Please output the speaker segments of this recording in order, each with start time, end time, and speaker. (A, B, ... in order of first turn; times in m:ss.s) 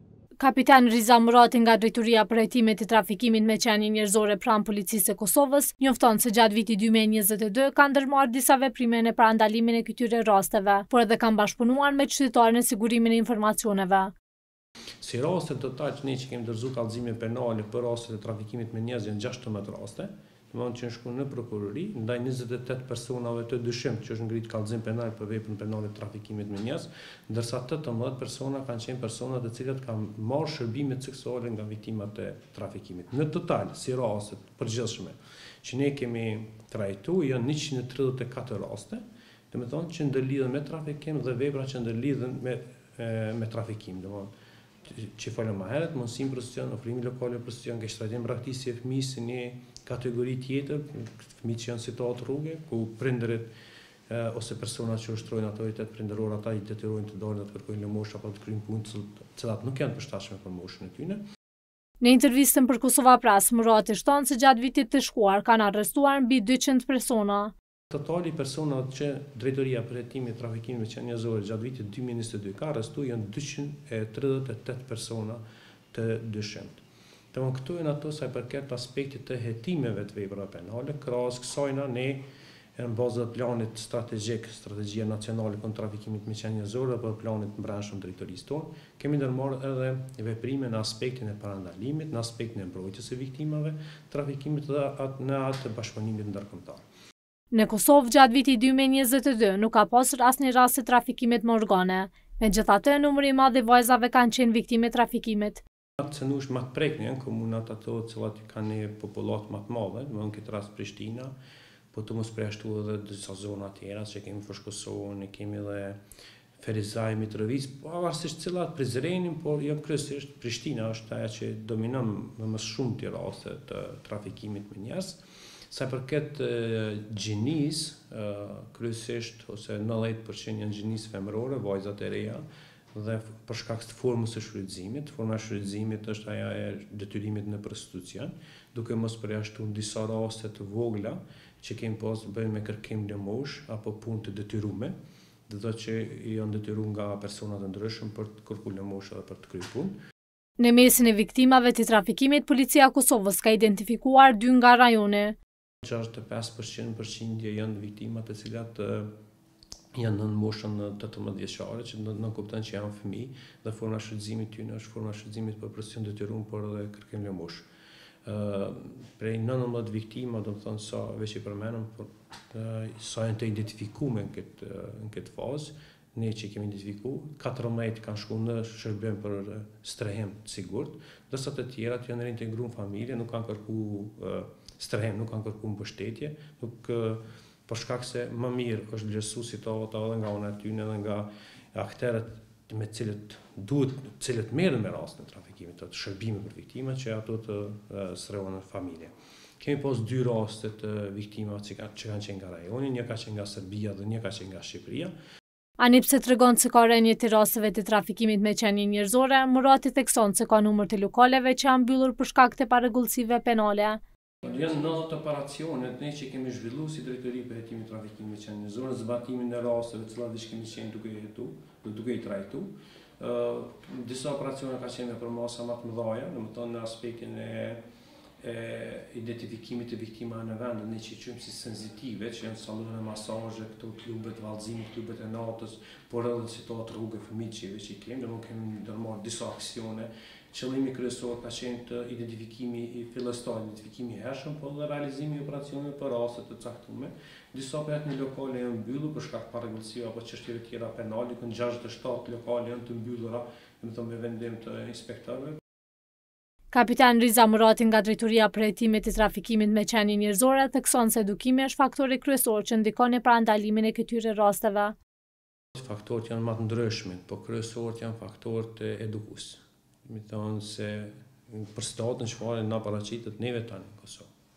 0:00.4-0:14.1 A
0:15.0-0:44.3 B
0:44.8-0:53.5 B
0:54.1-1:01.2 B
1:02.0-1:07.5 A
1:07.9-1:16.8 B
1:17.3-1:22.2 B
1:22.8-1:36.8 B
1:37.5-1:45.6 A
1:46.0-1:51.3 B
1:51.9-1:56.0 B
1:56.6-2:24.9 B
2:25.5-2:30.0 B
2:30.6-2:35.4 A
2:35.8-2:39.1 B
2:39.9-2:47.6 B
2:48.2-3:25.1 B
3:25.8-3:34.0 A
3:34.4-3:47.8 B
3:48.4-4:15.6 B
4:16.7-4:25.0 A
4:25.7-4:34.3 B